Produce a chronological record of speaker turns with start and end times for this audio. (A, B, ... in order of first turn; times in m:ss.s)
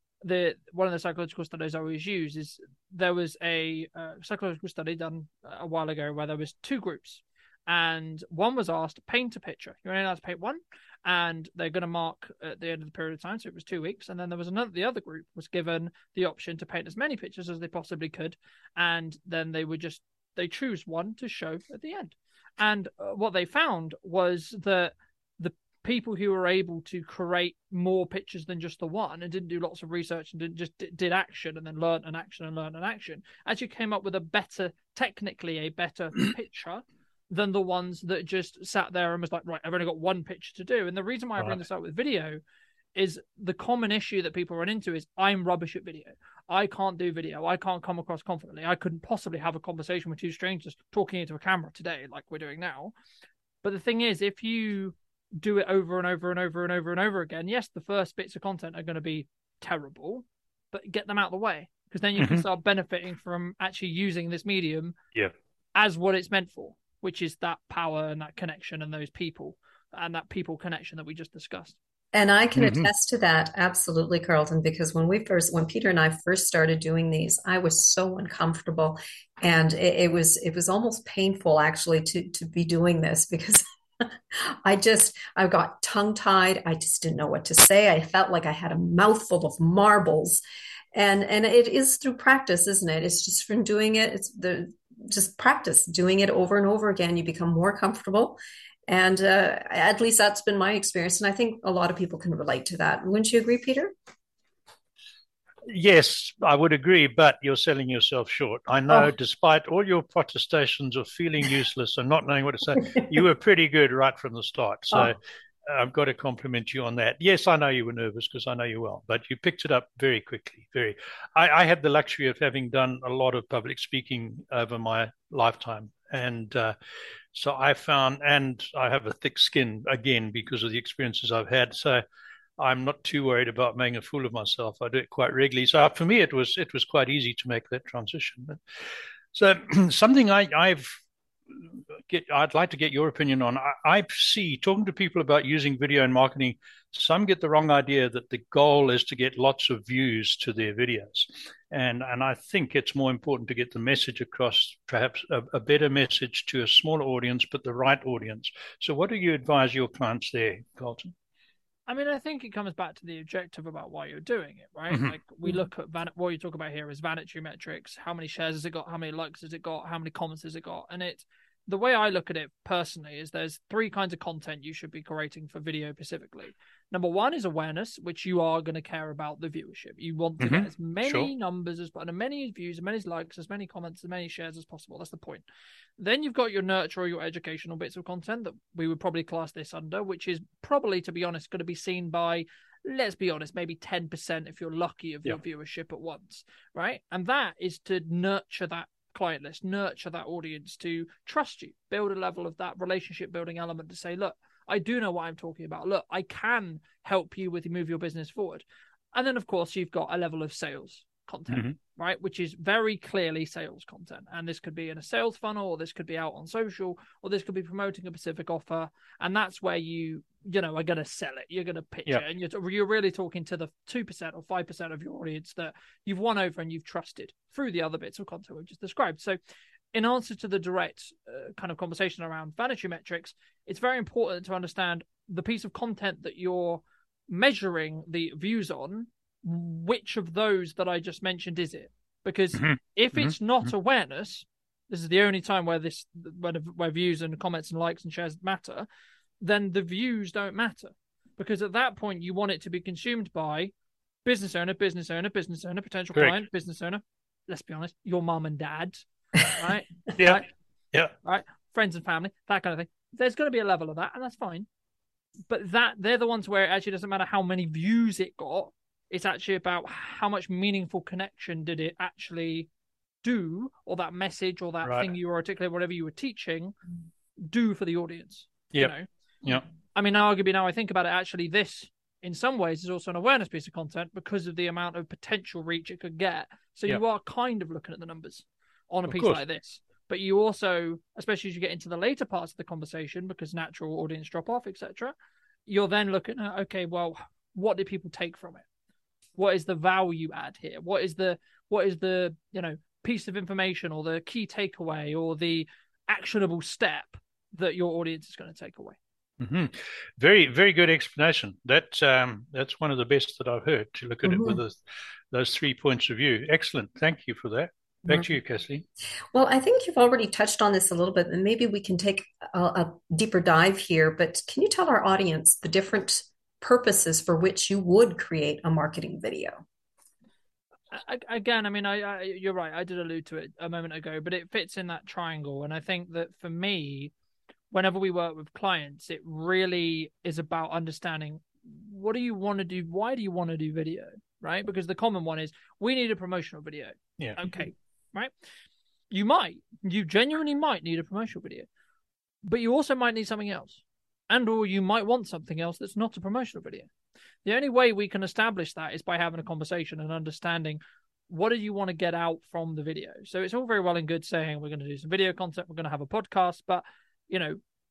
0:00.2-0:42.4 A
0:43.0-0:52.9 A
0:53.6-1:05.0 A
1:02.2-1:02.4 B
1:05.8-1:11.8 A
1:12.1-1:30.4 C
1:12.6-1:12.9 B
1:30.9-1:38.4 C
1:38.9-1:43.9 C
1:45.7-2:06.7 B
2:07.3-2:12.0 B
2:12.6-2:18.6 B
2:19.3-2:21.0 B
2:21.5-2:41.1 B
2:41.9-3:05.4 A
3:00.4-3:01.3 B
3:06.0-3:49.4 A
3:31.5-3:31.8 B
3:49.9-4:08.9 A
4:02.6-4:03.4 B
4:09.4-4:13.7 A
4:14.2-4:20.5 A
4:16.2-4:16.4 B
4:20.2-4:21.1 B
4:21.2-4:24.7 A
4:25.5-4:32.7 A
4:33.2-4:36.8 A
4:34.8-4:35.1 B
4:37.4-4:39.1 A
4:39.9-4:55.1 A
4:49.1-4:49.4 B
4:55.7-4:58.6 A
4:59.4-5:09.0 A
5:09.4-5:14.8 B
5:14.2-5:14.6 C
5:15.3-5:18.8 B
5:19.3-5:29.6 C
5:30.9-5:37.1 A
5:37.7-5:48.3 A
5:49.1-5:51.7 A
5:52.4-5:56.9 A
5:57.4-6:07.6 A